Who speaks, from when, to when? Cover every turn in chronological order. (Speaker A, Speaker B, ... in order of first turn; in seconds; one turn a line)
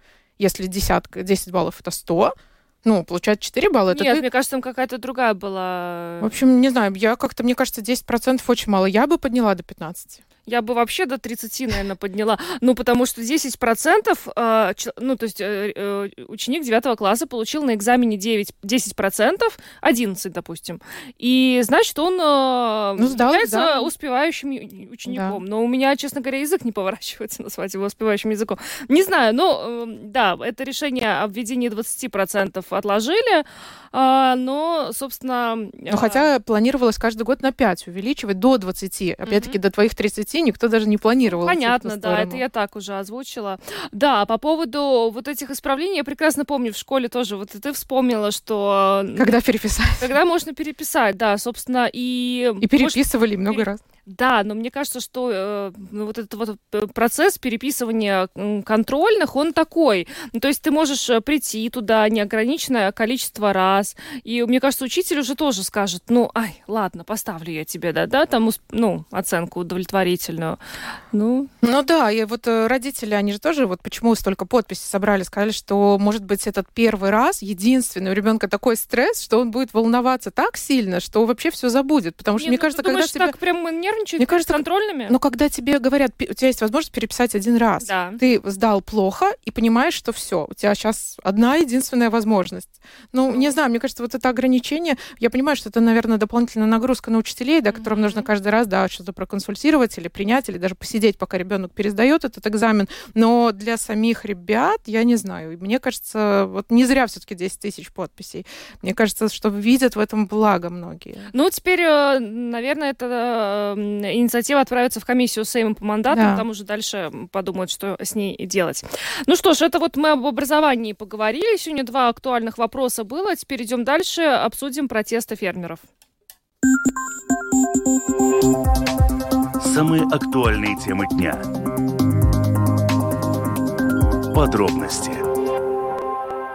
Speaker A: 0.4-4.2
Speaker B: 3.9-6.3
Speaker A: 6.2-10.2
Speaker B: 10.5-36.2
Speaker A: 23.0-23.9
Speaker A: 25.1-25.4
Speaker A: 35.9-42.4
Speaker B: 39.2-39.5
Speaker B: 41.3-49.3
Speaker A: 49.1-50.1
Speaker B: 50.0-70.6
Speaker A: 52.6-53.8
Speaker B: 71.1-71.5
Speaker A: 71.6-83.3
Speaker B: 82.4-85.1
Speaker A: 84.2-111.3
Speaker B: 87.8-88.2
Speaker B: 93.3-93.5
Speaker B: 97.7-98.3
Speaker B: 111.3-125.8
Speaker A: 116.1-116.4
Speaker C: 129.6-131.5
Speaker C: 134.3-135.2